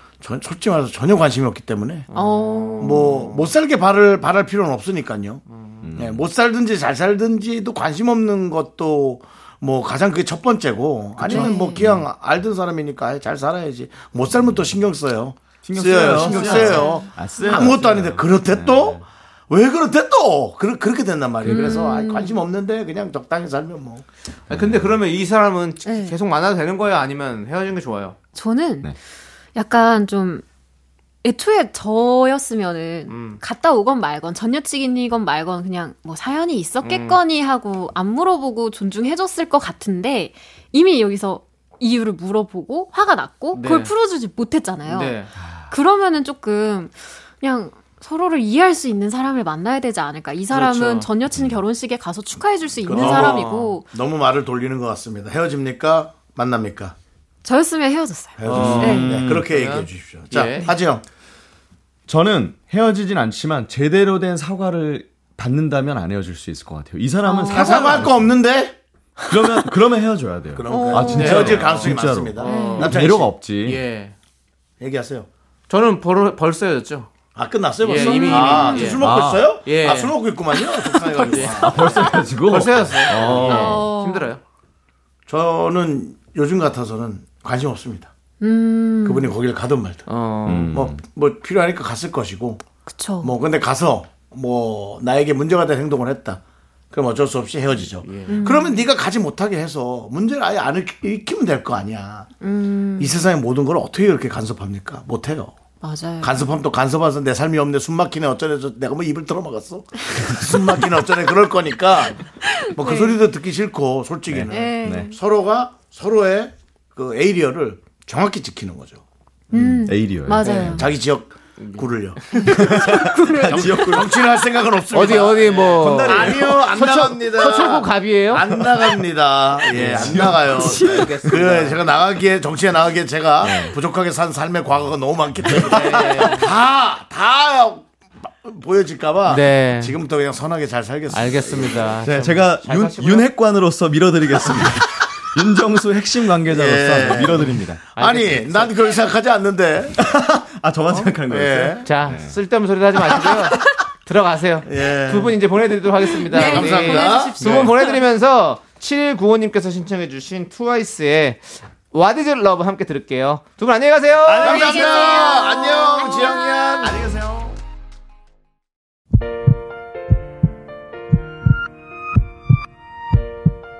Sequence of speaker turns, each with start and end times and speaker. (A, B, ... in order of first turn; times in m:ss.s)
0:00.2-0:02.1 A
0:02.1-0:03.5 B
0:02.1-0:03.2 C
0:02.8-0:05.4 A
0:05.5-0:05.8 B
0:05.8-0:06.2 D
0:05.9-0:24.0 A
0:11.2-0:11.9 C
0:15.6-0:19.0 D
0:16.0-0:17.7 C
0:21.4-0:22.4 C
0:24.5-0:25.0 D
0:24.5-0:28.2 B
0:25.8-0:26.2 C
0:28.3-0:28.9 C
0:29.5-0:30.4 C
0:31.2-0:45.2 C
0:33.1-0:33.4 B
0:36.8-0:37.2 B
0:43.5-0:43.9 B
0:44.8-0:45.3 B
0:45.7-0:53.9 C
0:50.5-0:51.1 B
0:51.3-0:51.6 D
0:52.8-0:57.0 A
0:52.9-0:53.8 B
0:57.4-0:59.2 C
0:58.4-1:01.0 A
0:58.4-1:00.7 B
0:58.5-0:59.5 D
1:02.1-1:08.2 D
1:07.2-1:08.0 C
1:07.5-1:08.8 A
1:07.7-1:08.0 B
1:09.3-1:13.8 D
1:10.5-1:13.4 A
1:10.6-1:11.4 C
1:11.1-1:13.0 B
1:12.4-1:12.9 C
1:13.6-1:14.1 B
1:14.8-1:15.3 A
1:15.7-1:17.1 B
1:17.3-1:21.8 A
1:17.8-1:19.0 B
1:17.8-1:19.0 C
1:19.0-1:19.5 D
1:19.6-1:20.1 B
1:20.6-1:20.8 C
1:21.2-1:24.4 B
1:21.5-1:23.8 D
1:23.2-1:24.3 C
1:25.3-1:28.1 A
1:28.4-1:29.3 C
1:29.0-1:30.1 A
1:30.0-1:30.9 B
1:30.4-1:31.0 D
1:30.7-1:32.6 A
1:32.8-1:33.3 C
1:33.2-1:36.4 A
1:36.9-1:42.3 A
1:38.0-1:38.4 B
1:38.3-1:38.9 C
1:42.4-1:43.2 C
1:43.0-1:45.6 A
1:45.8-1:46.4 C
1:46.2-1:59.0 A
1:52.4-1:53.2 C
1:54.3-1:55.1 D
1:54.5-1:55.1 C
1:59.5-2:00.9 C
1:59.5-2:00.8 D
2:00.4-2:22.0 A
2:01.6-2:02.7 B
2:02.5-2:04.3 D
2:02.7-2:04.0 C
2:04.9-2:08.4 B
2:05.7-2:06.8 D
2:08.5-2:08.8 D
2:09.7-2:11.5 D
2:09.7-2:11.8 B
2:13.4-2:13.8 D
2:15.5-2:15.8 D
2:15.6-2:16.5 B
2:19.2-2:20.0 B
2:21.1-2:23.3 B
2:22.0-2:27.8 D
2:26.5-2:30.0 A
2:27.9-2:28.8 B
2:30.0-2:32.4 D
2:31.0-2:31.9 A
2:31.8-2:44.9 B
2:33.1-2:33.4 D
2:34.6-2:35.4 A
2:36.2-2:38.1 C
2:36.3-2:37.6 A
2:44.3-2:45.4 D
2:44.4-2:47.0 A
2:44.4-2:46.9 C
2:46.8-2:47.6 D